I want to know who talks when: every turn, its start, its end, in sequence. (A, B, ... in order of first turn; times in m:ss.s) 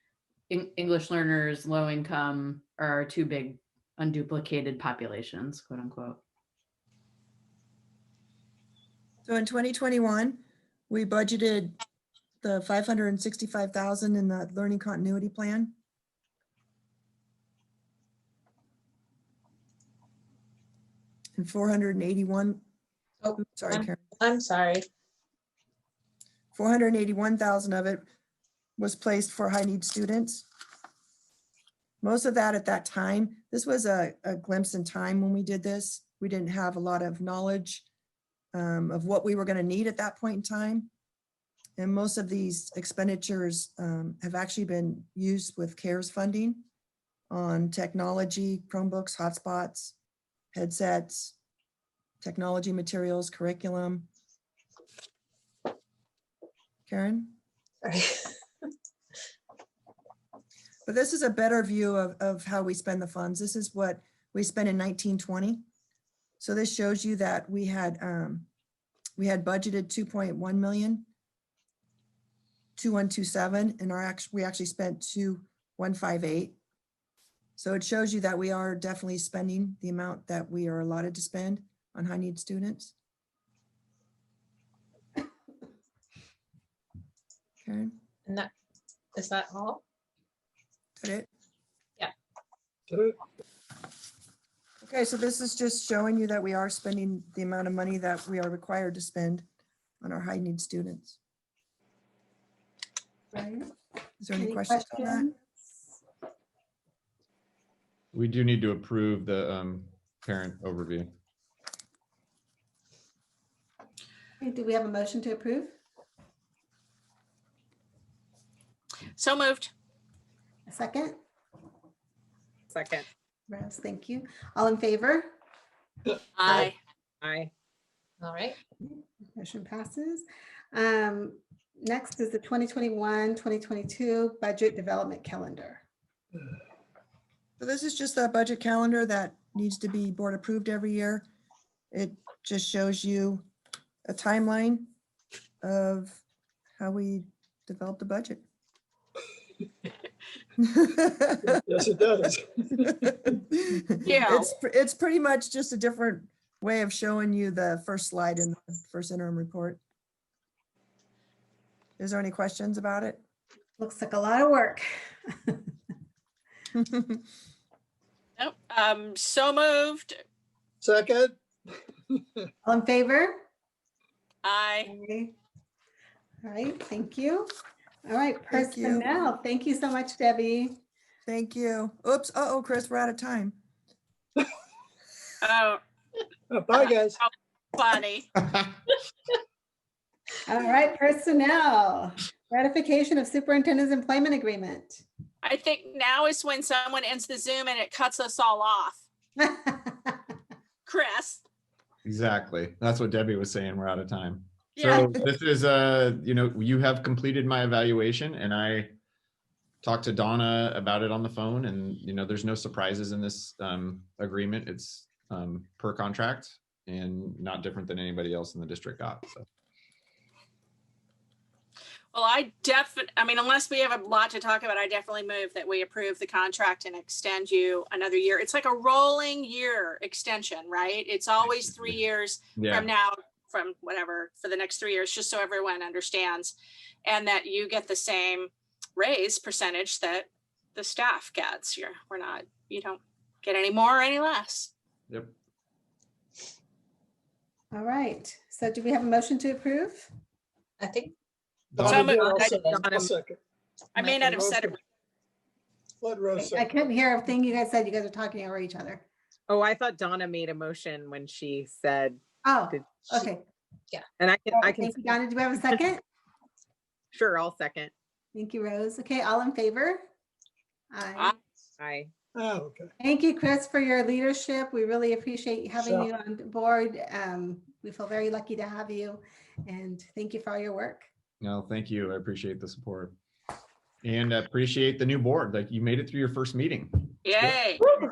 0:00.5-0:06.2 A
0:09.2-0:11.8 B
0:12.4-0:15.7 B
0:21.4-0:22.6 B
0:23.2-0:24.9 C
0:23.4-0:24.0 B
0:26.5-0:28.0 B
0:28.8-0:30.4 B
0:32.0-0:37.8 B
0:38.5-0:40.9 B
0:41.8-0:46.6 B
0:47.3-0:50.0 B
0:50.5-0:51.3 B
0:52.2-0:54.1 B
0:56.9-0:57.3 B
0:57.8-0:58.3 C
1:00.8-1:05.6 B
1:06.4-1:08.5 B
1:09.2-1:11.1 B
1:12.8-1:16.6 B
1:17.6-1:22.9 B
1:27.6-1:27.9 B
1:29.1-1:29.8 C
1:31.0-1:31.3 B
1:32.9-1:33.2 D
1:34.8-1:39.4 B
1:40.0-1:41.2 B
1:43.3-1:43.7 E
1:44.2-1:45.3 B
1:44.4-1:45.6 E
1:48.1-1:51.1 F
1:54.4-1:55.7 E
1:59.2-1:59.7 G
2:00.7-2:01.2 E
2:02.7-2:03.0 H
2:03.5-2:05.3 E
2:06.4-2:06.8 G
2:07.2-2:07.5 H
2:08.2-2:08.6 C
2:09.4-2:15.8 E
2:17.6-2:21.3 B
2:21.9-2:23.4 B
2:24.0-2:24.9 B
2:25.6-2:26.2 B
2:26.8-2:28.4 B
2:30.6-2:31.5 B
2:31.5-2:33.1 D
2:33.2-2:39.8 B
2:34.0-2:34.5 G
2:42.0-2:43.2 B
2:43.8-2:45.6 E
2:48.4-2:50.2 G
2:50.8-2:51.4 D
2:52.6-2:53.4 E
2:54.4-2:54.9 G
2:54.8-2:55.3 E
2:56.4-2:57.5 E
2:58.0-3:00.8 E
2:58.5-2:59.2 B
3:01.2-3:03.6 B
3:05.4-3:05.8 G
3:06.5-3:07.2 D
3:06.7-3:08.3 G
3:10.4-3:15.0 E
3:15.4-3:19.0 G
3:19.4-3:20.2 E
3:20.8-3:21.4 G
3:22.0-3:28.9 F
3:24.7-3:25.1 G
3:29.8-3:39.4 F
3:42.1-3:56.5 G
3:52.6-3:52.9 F
3:57.0-4:04.7 G
4:07.7-4:10.1 E
4:10.8-4:11.1 C
4:11.7-4:12.0 F
4:11.8-4:13.4 D
4:11.8-4:12.6 G
4:11.9-4:13.1 H
4:13.9-4:14.8 G
4:14.0-4:14.7 D
4:16.0-4:16.9 D
4:16.4-4:19.0 E
4:19.5-4:23.1 H
4:22.4-4:23.4 E
4:24.2-4:25.8 H
4:24.5-4:26.0 E
4:27.1-4:27.9 H
4:28.3-4:30.0 E
4:30.9-4:31.4 E
4:31.8-4:32.1 H
4:32.3-4:32.9 D
4:33.0-4:41.1 E
4:35.8-4:36.1 D
4:41.4-4:43.2 F
4:44.0-4:47.6 F
4:47.2-4:47.8 G